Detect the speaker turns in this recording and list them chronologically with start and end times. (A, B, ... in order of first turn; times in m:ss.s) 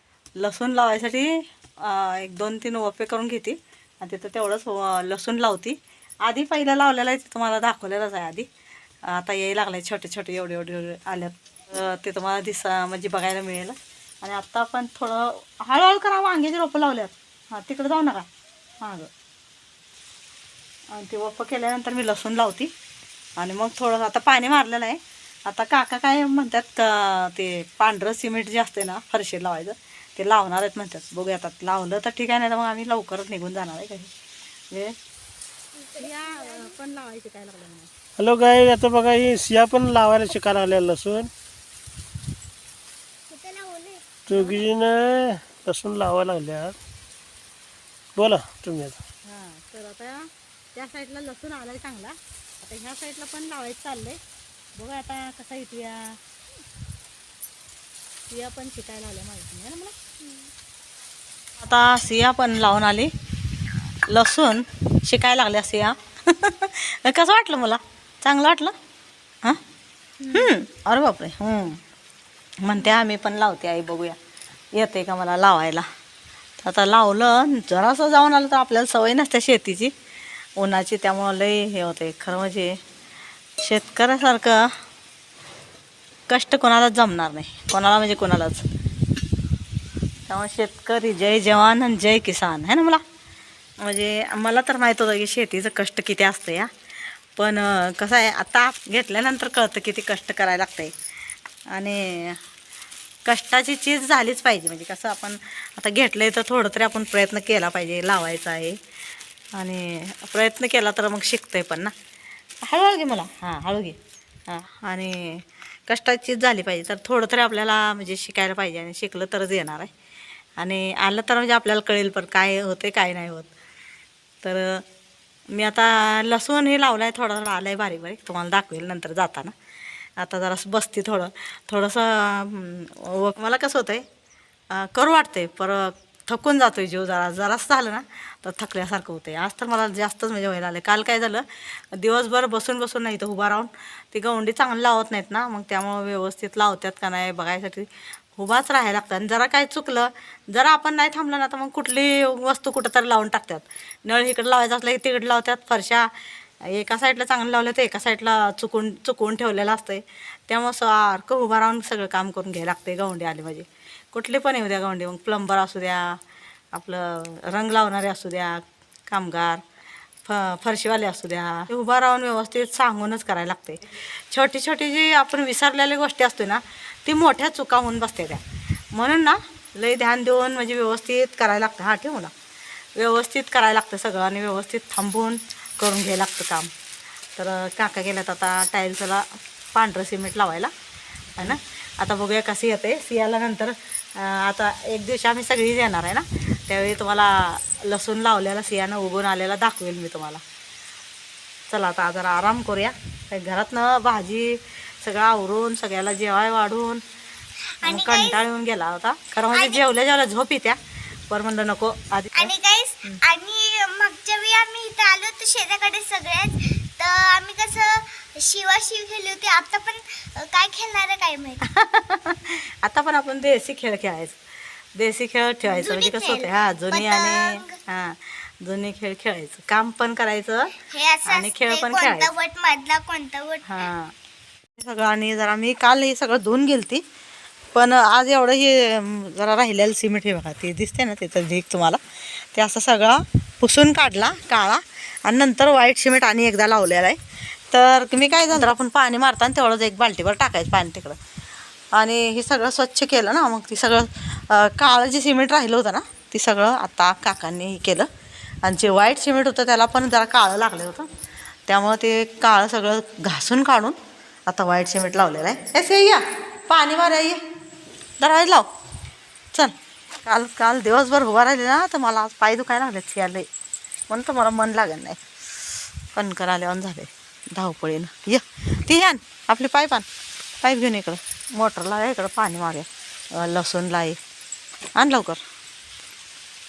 0:00.4-0:08.5 A
0:09.1-0:18.3 A
0:18.8-0:19.1 A
0:20.9-0:22.7 A
0:23.4-0:34.1 A
0:34.7-0:35.0 A
0:36.0-0:37.9 A
0:38.2-0:41.3 B
0:43.3-0:44.0 C
0:44.3-0:44.6 A
0:44.3-0:46.8 B
0:48.2-0:49.0 B
0:49.3-0:54.2 A
0:54.8-0:56.2 A
0:58.3-0:59.9 A
1:00.2-1:00.5 C
1:01.6-1:03.1 A
1:04.1-1:08.8 A
1:10.2-1:10.5 C
1:10.3-1:11.8 A
1:12.6-1:14.2 A
1:14.7-1:15.9 A
1:16.6-1:19.9 A
1:20.6-1:22.8 A
1:23.6-1:24.7 A
1:26.3-1:28.6 A
1:30.3-1:33.0 A
1:33.8-1:36.7 A
1:37.4-1:40.9 A
1:41.7-1:42.4 A
1:43.3-1:48.8 A
1:49.6-1:51.9 A
1:52.6-1:54.0 A
1:54.5-1:59.9 A
2:00.6-2:03.5 A
2:04.4-2:04.8 A
2:05.5-2:09.5 A
2:10.2-2:14.0 A
2:14.7-2:36.1 A
2:36.7-2:46.2 A
2:46.7-2:49.6 A
2:50.3-2:58.4 A
2:58.9-3:02.3 A
3:03.0-3:06.7 A
3:07.4-3:10.7 A
3:11.4-3:20.4 A
3:21.7-3:27.0 A
3:27.8-3:28.4 C
3:27.8-3:32.5 A
3:29.5-3:29.8 C
3:32.3-3:41.6 C
3:41.7-3:44.4 A
3:45.0-3:52.3 A
3:45.6-3:47.7 C
3:50.8-3:53.9 C
3:53.7-3:54.1 A
3:54.8-3:57.0 A
3:57.7-4:07.2 A
4:07.7-4:11.2 A
4:11.9-4:18.1 A
4:18.6-4:21.1 A
4:21.7-4:27.4 A
4:28.2-4:28.7 A
4:29.5-4:33.5 A
4:34.1-4:35.2 A
4:36.1-4:40.1 A
4:40.6-4:44.2 A
4:45.0-4:45.4 A